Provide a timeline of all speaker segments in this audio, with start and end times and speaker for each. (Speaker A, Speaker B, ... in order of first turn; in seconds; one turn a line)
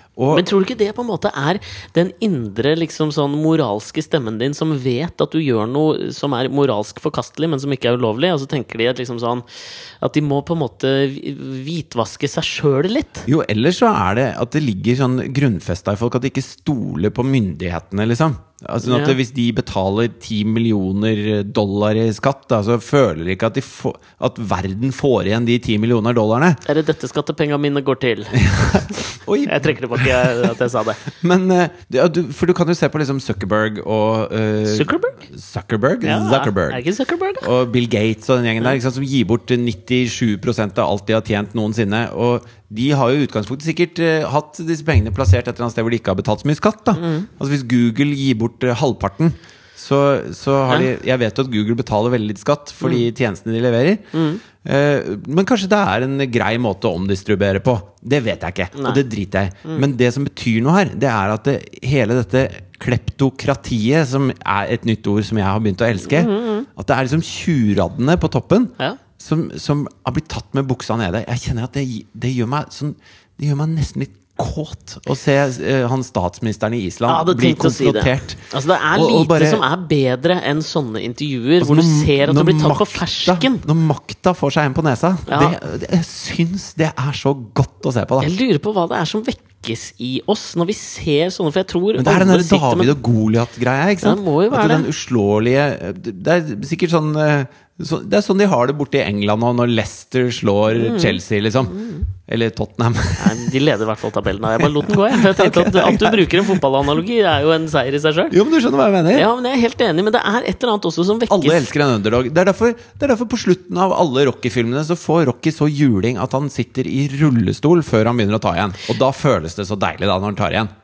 Speaker A: 0.2-0.5
Speaker B: 0.3-9.4
Speaker B: 10.0-13.3
Speaker A: 13.3-26.6
Speaker B: 18.8-19.2
Speaker B: 26.6-31.0
Speaker A: 28.4-30.5
Speaker A: 31.1-36.8
Speaker B: 34.7-35.2
Speaker B: 36.0-37.5
Speaker A: 37.4-79.6
Speaker B: 47.0-47.3
Speaker B: 54.1-54.4
Speaker B: 58.8-59.0
Speaker B: 66.1-66.7
Speaker B: 77.1-83.7
Speaker A: 81.6-88.3
Speaker B: 85.3-85.6
Speaker B: 88.2-93.0
Speaker A: 92.0-103.5
Speaker B: 94.0-94.9
Speaker B: 100.7-102.1
Speaker B: 103.2-108.4
Speaker A: 104.6-106.6
Speaker A: 108.3-109.3
Speaker B: 109.1-111.7
Speaker A: 111.3-120.7